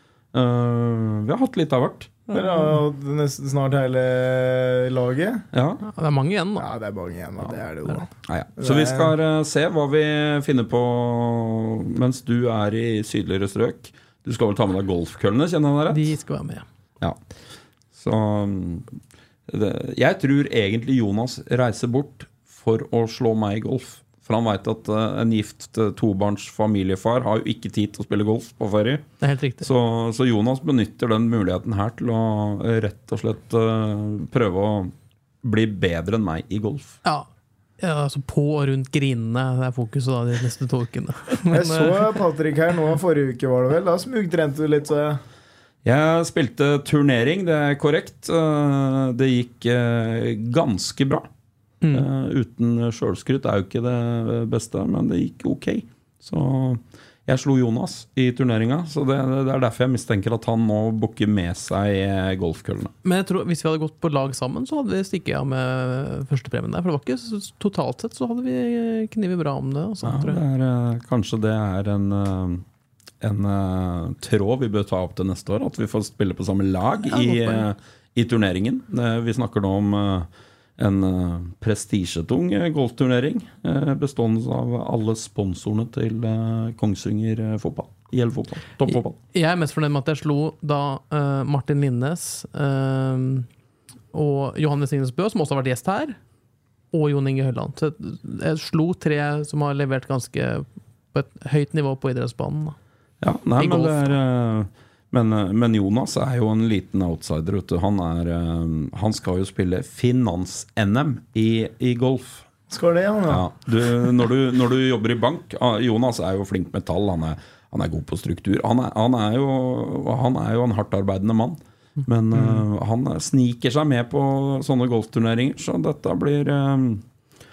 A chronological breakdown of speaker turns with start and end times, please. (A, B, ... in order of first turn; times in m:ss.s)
0:00.3-0:02.2 A
0:02.3-0:05.5 B
0:02.3-0:02.7 C
0:05.5-0:05.8 A
0:05.8-0:06.7 C
0:06.6-0:09.1 B
0:08.2-0:16.1 A
0:15.9-0:16.6 C
0:17.9-0:18.9 A
0:19.5-0:29.0 A
0:29.2-0:29.7 C
0:29.6-0:37.0 A
0:37.8-0:42.1 C
0:41.5-0:45.2 B
0:45.8-0:51.3 A
0:51.9-1:02.9 A
1:03.0-1:10.4 C
1:10.0-1:12.6 A
1:13.2-1:29.2 A
1:17.1-1:17.6 C
1:28.9-1:33.5 C
1:34.1-1:36.2 C
1:36.9-1:42.8 C
1:43.2-1:52.5 A
1:43.6-1:44.1 C
1:52.7-1:53.5 B
1:53.3-2:07.0 A